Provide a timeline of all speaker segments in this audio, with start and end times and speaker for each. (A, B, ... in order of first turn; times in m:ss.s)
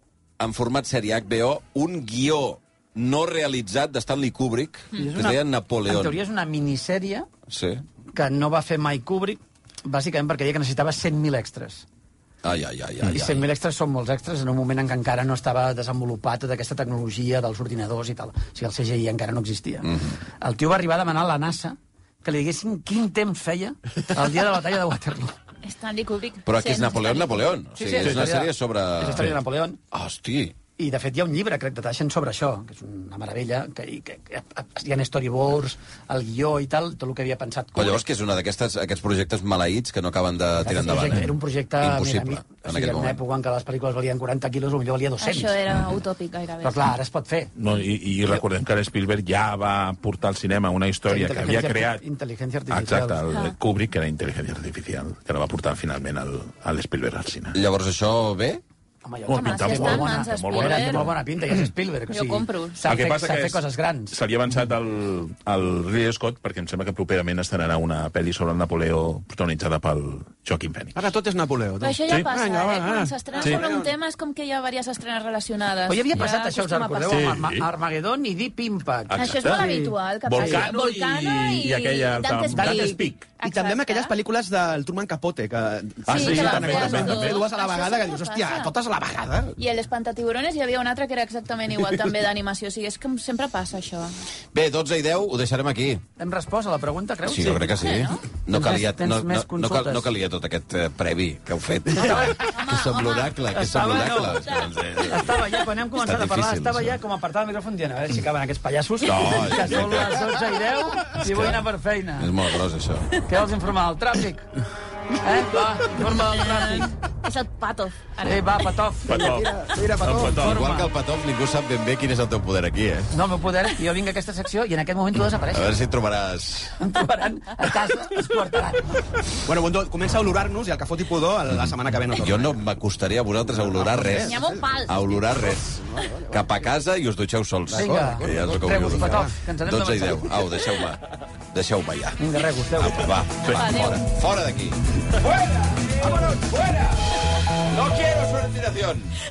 0:00.4-0:06.2 A
0:05.0-0:07.3 B
0:07.5-0:07.8 A
0:08.1-0:11.8 B
0:12.4-0:13.4 A
0:13.0-0:25.3 B
0:25.6-0:27.5 C
0:26.5-0:29.4 A
0:27.7-0:29.8 B
0:29.9-0:30.6 A
0:30.8-0:38.0 B
0:37.7-0:43.2 A
0:40.6-0:45.6 B
0:45.2-0:46.9 C
0:46.6-0:47.5 B
0:47.6-0:52.0 D
0:51.1-0:53.2 B
0:52.7-0:57.6 D
0:53.3-0:53.6 C
0:57.5-0:58.6 A
0:59.0-1:04.2 B
0:59.3-1:01.1 D
0:59.3-1:01.0 C
1:02.1-1:02.8 C
1:02.8-1:10.9 D
1:10.9-1:13.9 E
1:11.8-1:17.3 C
1:15.9-1:20.7 B
1:17.1-1:17.7 D
1:19.1-1:19.6 D
1:19.2-1:24.1 C
1:20.2-1:23.3 D
1:22.5-1:23.0 B
1:23.4-1:29.5 E
1:26.1-1:27.4 D
1:26.1-1:28.7 C
1:29.6-1:34.2 C
1:34.5-1:36.0 A
1:36.2-1:37.8 B
1:37.2-1:47.0 A
1:37.7-1:38.2 C
1:38.5-1:40.1 B
1:42.0-1:42.4 B
1:42.0-1:43.4 C
1:43.5-1:44.4 B
1:44.0-1:44.7 C
1:45.0-1:52.3 B
1:49.0-1:50.3 A
1:51.1-1:51.6 A
1:52.2-1:53.1 A
1:53.2-1:54.5 B
1:55.2-1:56.9 B
1:56.5-1:58.7 C
1:58.2-1:59.3 B
1:59.0-2:00.6 D
1:59.1-2:00.5 E
2:00.4-2:00.9 B
2:00.4-2:03.1 A
2:03.1-2:05.7 B
2:05.5-2:06.8 A
2:06.8-2:09.1 B
2:09.4-2:12.6 E
2:11.5-2:21.0 A
2:13.5-2:16.5 E
2:14.1-2:15.0 C
2:17.7-2:20.4 B
2:17.7-2:18.5 E
2:21.5-2:29.2 A
2:22.2-2:23.1 B
2:23.4-2:24.0 D
2:23.5-2:24.0 C